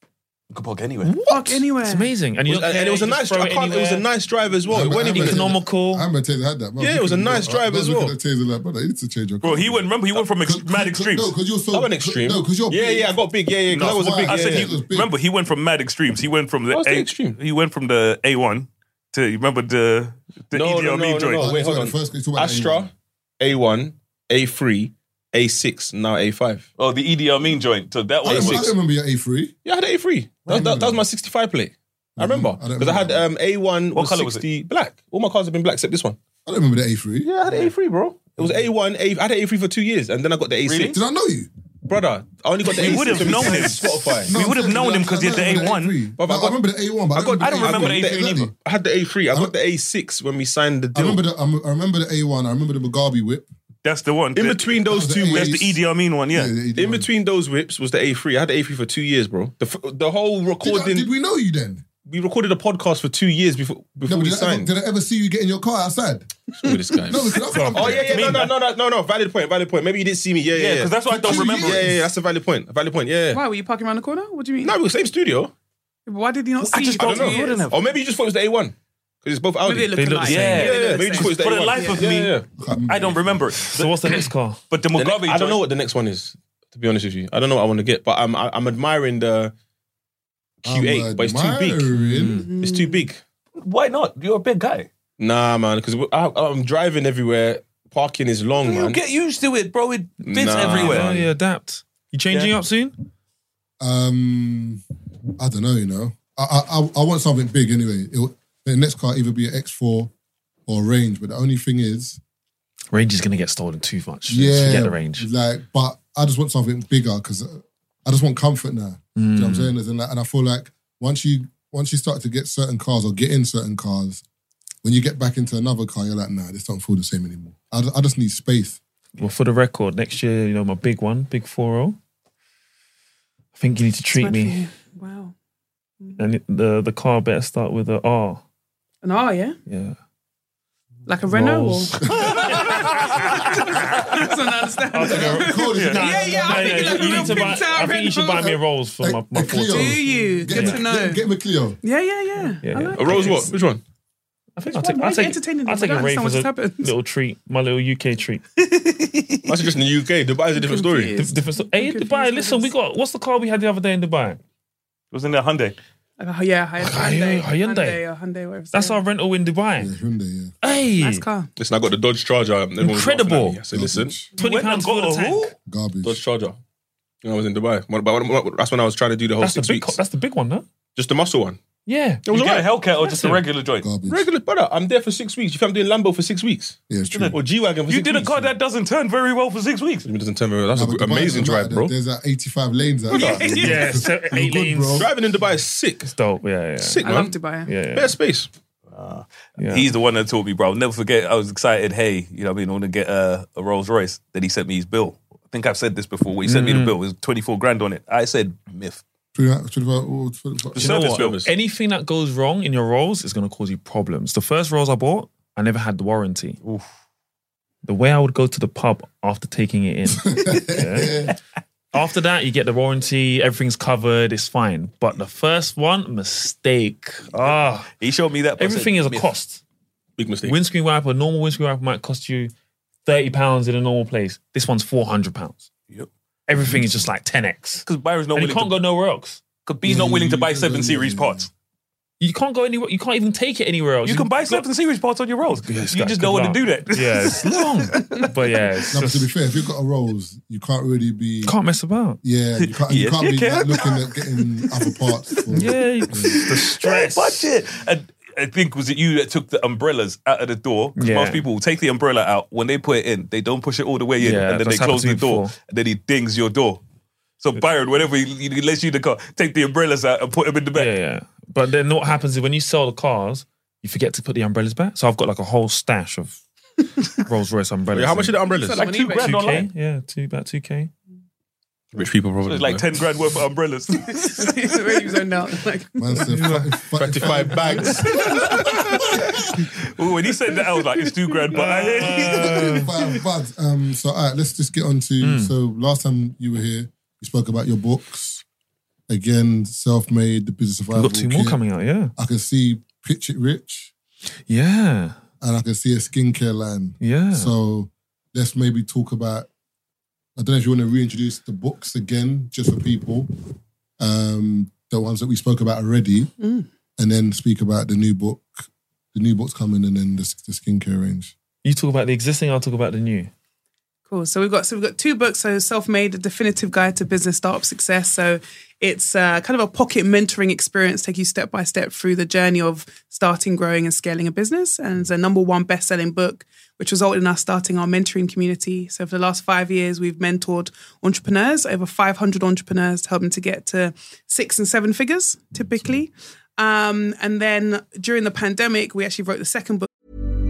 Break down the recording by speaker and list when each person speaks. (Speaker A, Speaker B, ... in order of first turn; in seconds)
Speaker A: 0.5-1.2, 9.4-11.3, 13.7-21.5, 26.8-28.7, 34.0-34.4, 40.6-41.0, 42.6-46.0, 47.4-48.5, 53.8-54.8, 55.3-56.5, 68.0-68.5, 70.5-72.0, 76.6-77.8, 80.2-85.6, 93.6-94.9, 98.6-101.0, 142.4-142.8, 145.7-147.5, 158.6-159.5, 165.1-165.8, 174.4-175.5, 182.3-183.9, 187.1-187.4, 187.9-190.1, 198.9-209.0, 210.8-211.4, 227.4-229.3, 237.8-238.8, 239.7-241.5, 244.1-248.3, 252.6-255.5, 256.0-266.8, 267.4-270.9, 278.8-279.7, 282.4-285.3, 288.0-293.2
Speaker B: 1.0-4.1, 4.8-6.1, 67.5-68.2, 80.0-80.8, 83.7-84.6, 91.9-92.5, 100.6-103.0, 112.9-115.3, 119.2-119.7, 129.2-132.0, 133.6-134.6, 136.2-138.4, 139.7-140.0, 141.3-143.5, 144.9-150.8, 152.5-153.5, 154.6-158.4, 161.2-164.4, 166.8-168.0, 168.7-169.9, 170.6-171.2, 172.8-173.6, 174.3-175.5, 179.4-180.7, 181.9-182.2, 183.0-183.4, 193.2-195.1, 196.1-198.1, 199.6-199.9, 206.5-207.0, 210.8-216.6, 217.8-221.3, 221.9-227.9, 228.6-229.6, 230.4-232.5, 233.1-235.7, 236.5-239.4, 242.2-244.7, 245.5-249.3, 251.4-252.2, 255.5-257.5, 261.0-261.5, 264.2-265.6, 270.7-276.4, 277.2-278.4, 279.2-280.9, 286.3-286.7, 291.5-292.9, 295.2-295.5, 300.9-302.1, 304.5-305.2, 307.0-307.5, 321.6-323.3
Speaker C: 1.3-2.1, 73.3-74.8, 76.1-77.7, 79.6-82.1, 92.3-93.1, 134.2-135.3, 139.0-139.6, 141.1-148.6, 149.7-151.2, 151.8-153.5, 154.7-156.9, 160.5-162.7, 166.2-169.0, 171.0-171.5, 193.1-194.0, 197.0-197.8, 278.4-279.6, 284.0-286.3, 316.4-316.7, 324.1-349.9
Speaker D: 2.5-5.6, 6.8-8.1, 11.7-14.7, 16.7-17.4, 20.5-26.7, 28.2-28.7, 29.6-36.2, 37.2-41.0, 41.9-44.4, 46.2-46.6, 47.1-51.2, 54.4-55.6, 56.7-61.1, 62.0-64.7, 66.6-73.4, 74.6-75.5, 77.0-82.5, 84.9-89.5, 90.6-91.9, 92.6-93.2, 95.2-99.0, 100.2-101.2, 152.9-153.8, 159.5-161.1, 171.6-174.2, 176.0-176.6, 177.2-180.0, 180.9-181.6, 182.3-182.7, 184.1-186.8, 187.3-188.5, 190.1-191.9, 194.9-196.1, 196.8-197.3, 197.8-198.5, 210.8-211.5, 230.2-230.6, 277.9-278.8, 281.9-283.1, 286.9-289.0
Speaker E: 4.7-13.2, 13.7-15.1, 21.4-22.9, 28.2-29.6, 30.5-31.0, 32.2-33.2, 36.5-37.3, 40.9-41.5, 42.8-48.5, 50.9-53.5, 54.9-55.8, 56.3-57.1, 60.6-61.9, 64.1-66.3, 67.1-68.4, 71.1-72.1, 82.6-83.4, 90.7-92.5, 103.8-104.8, 105.4-110.1, 110.7-112.2, 114.3-124.2, 124.8-128.8, 142.0-142.5, 145.0-146.9, 149.0-151.8, 169.8-170.5, 173.7-174.3, 175.7-176.2, 183.8-184.3, 186.9-187.4, 190.7-195.1, 209.3-210.9, 220.2-221.3, 236.6-236.9, 239.8-241.5, 248.9-251.6, 252.2-256.4, 286.0-288.2, 292.4-298.4, 299.1-301.6, 302.1-303.9, 305.4-309.5, 310.4-313.4, 314.0-316.3, 317.0-321.3